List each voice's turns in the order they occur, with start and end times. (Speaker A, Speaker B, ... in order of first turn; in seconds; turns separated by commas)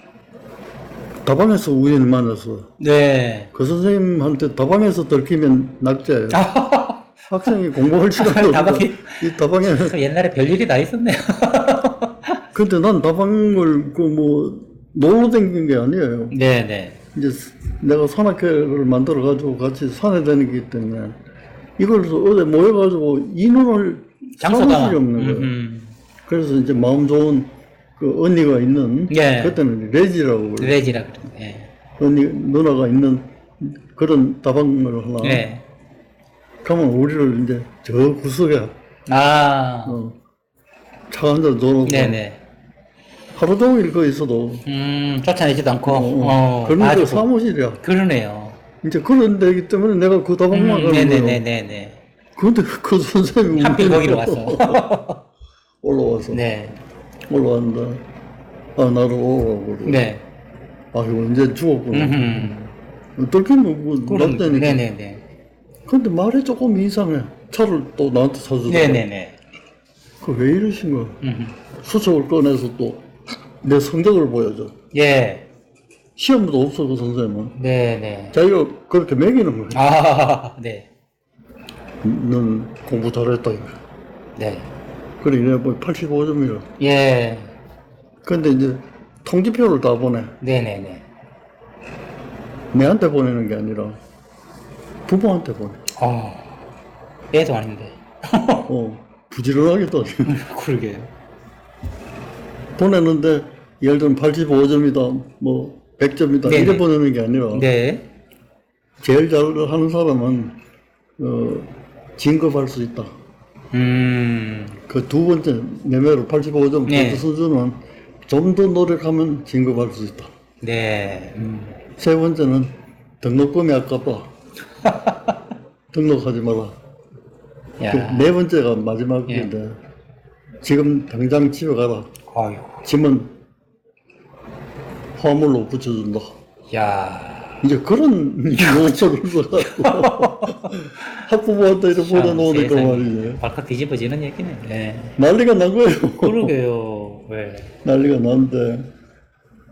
Speaker A: 1.2-2.7, Speaker B: 2.8-3.5, Speaker A: 3.5-6.4, Speaker B: 6.3-7.1, Speaker A: 7.3-10.0, Speaker B: 8.2-12.4, Speaker A: 12.5-16.3, Speaker B: 16.3-17.0, Speaker A: 17.1-21.2, Speaker A: 21.8-25.5, Speaker B: 24.4-25.9, Speaker A: 26.3-30.8, Speaker B: 29.1-29.6, Speaker B: 30.6-31.7, Speaker A: 32.0-35.5, Speaker B: 35.2-35.6, Speaker A: 36.6-38.7, Speaker B: 39.1-40.0, Speaker A: 39.9-40.2, Speaker A: 41.1-42.2, Speaker B: 41.9-42.4, Speaker A: 43.3-44.6, Speaker B: 44.7-47.3, Speaker A: 45.9-47.8, Speaker B: 47.8-48.6, Speaker A: 48.8-51.4, Speaker B: 50.5-52.0, Speaker A: 52.4-54.9, Speaker B: 53.6-55.2, Speaker A: 55.8-56.4, Speaker B: 56.3-56.8, Speaker A: 57.3-58.0, Speaker A: 58.8-60.0, Speaker B: 59.9-60.2, Speaker A: 60.9-62.5, Speaker B: 61.9-62.7, Speaker A: 63.2-64.8, Speaker B: 64.1-65.2, Speaker A: 65.9-69.1, Speaker B: 68.7-69.4, Speaker A: 70.2-71.2, Speaker B: 71.2-71.5, Speaker A: 71.8-73.1, Speaker A: 73.6-74.7, Speaker B: 74.9-75.4, Speaker A: 76.2-77.5, Speaker B: 77.6-78.3, Speaker A: 78.3-79.8, Speaker B: 79.7-80.9, Speaker A: 82.0-83.8, Speaker B: 84.4-84.7, Speaker A: 85.2-86.7, Speaker B: 86.8-87.5, Speaker A: 88.2-90.3, Speaker B: 90.4-91.0, Speaker A: 92.7-94.0, Speaker A: 95.1-95.8, Speaker B: 96.0-96.6, Speaker B: 97.3-98.7, Speaker A: 98.7-100.4, Speaker B: 100.3-101.1, Speaker A: 102.8-107.7, Speaker B: 106.5-106.8, Speaker B: 107.5-108.0, Speaker A: 109.0-110.6, Speaker A: 111.2-113.1, Speaker B: 113.7-114.8, Speaker A: 114.9-117.8, Speaker B: 116.9-117.2, Speaker A: 118.3-120.3, Speaker B: 120.6-121.8, Speaker A: 122.0-124.3, Speaker B: 124.8-125.4, Speaker A: 125.9-126.8, Speaker B: 127.8-128.3, Speaker A: 127.9-129.7, Speaker A: 130.6-132.1, Speaker B: 132.3-132.8, Speaker A: 132.8-133.3, Speaker A: 135.2-136.3, Speaker B: 136.7-137.7, Speaker A: 137.6-143.4, Speaker B: 138.6-138.9, Speaker B: 139.6-141.2, Speaker B: 141.9-145.2, Speaker A: 145.2-146.6, Speaker B: 146.2-147.7, Speaker A: 147.8-148.9